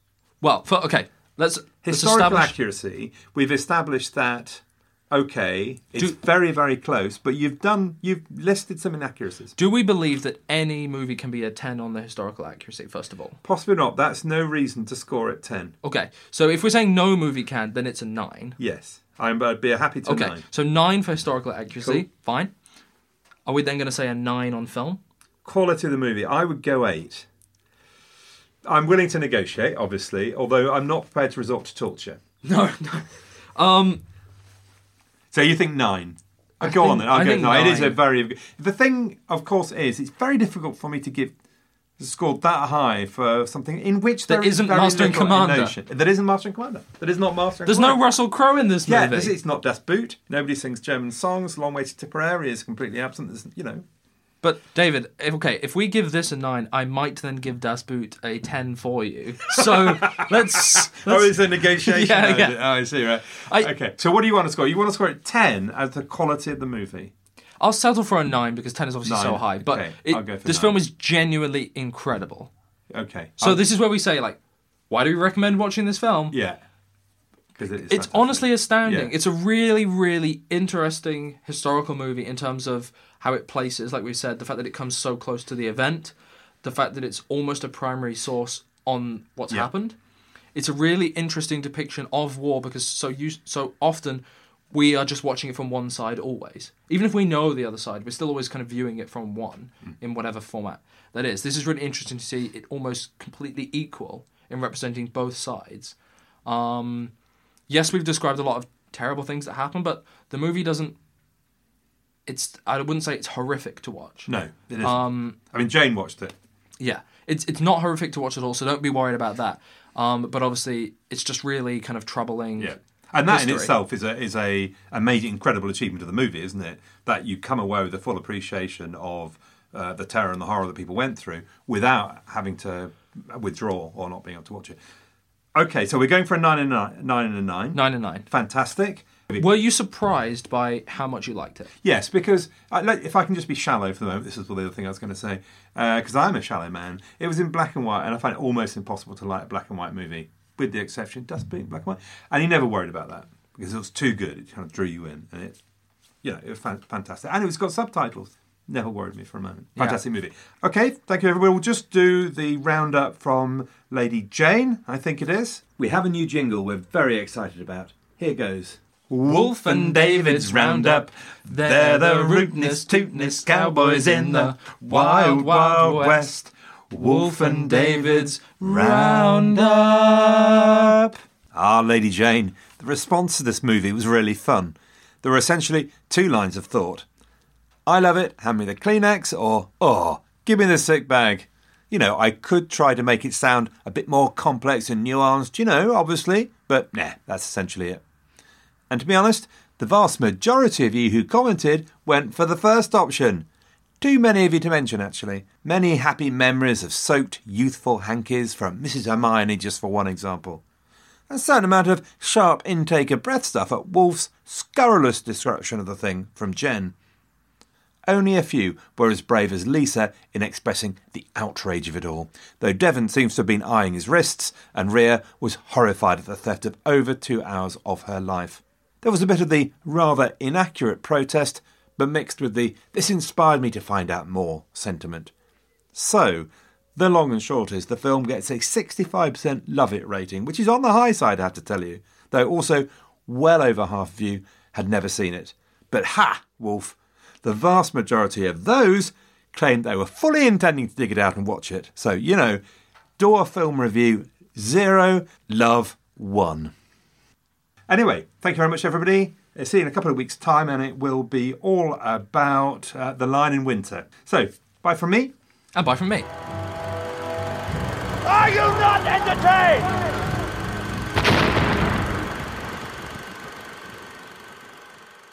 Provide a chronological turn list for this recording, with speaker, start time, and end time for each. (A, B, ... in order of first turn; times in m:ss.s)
0:00.4-0:02.5 A
0:01.8-0:09.6 B
0:09.6-0:13.4 A
0:13.4-0:15.7 B
0:15.8-0:18.6 A
0:18.6-0:20.4 B
0:20.1-0:22.5 A
0:21.8-0:22.0 B
0:23.5-0:25.0 A
0:25.4-0:27.3 B
0:28.6-0:32.2 B
0:32.4-0:34.0 A
0:35.3-0:41.3 B
0:36.6-0:38.0 A
0:42.0-0:48.0 B
0:44.3-0:45.8 A
0:47.6-0:49.4 A
0:48.9-0:53.8 B
0:54.4-1:02.7 A
0:59.5-1:07.1 B
1:03.4-1:03.7 A
1:07.6-1:12.5 A
1:09.0-1:10.8 B
1:12.9-1:13.6 B
1:13.4-1:14.4 A
1:14.9-1:16.4 A
1:16.3-1:16.6 B
1:17.6-1:19.1 B
1:17.8-1:30.0 A
1:30.6-1:47.1 A
1:47.7-1:51.0 A
1:52.3-1:55.4 A
1:54.3-1:56.3 B
1:56.8-2:03.7 A
2:02.6-2:14.8 B
2:15.6-2:19.4 B
2:17.7-2:18.3 A
2:19.4-2:21.7 A
2:21.8-2:35.6 B
2:36.2-3:07.0 B
2:39.8-2:40.0 A
2:49.3-2:56.4 A
2:56.9-3:00.9 A
3:07.9-3:18.0 B
3:18.9-3:23.5 B
3:24.0-3:30.6 B
3:31.3-3:36.9 B
3:38.1-3:55.3 B
3:56.0-4:12.6 B
4:13.2-4:16.7 B
4:17.9-4:25.3 B
4:25.8-4:26.3 A
4:28.4-4:28.7 B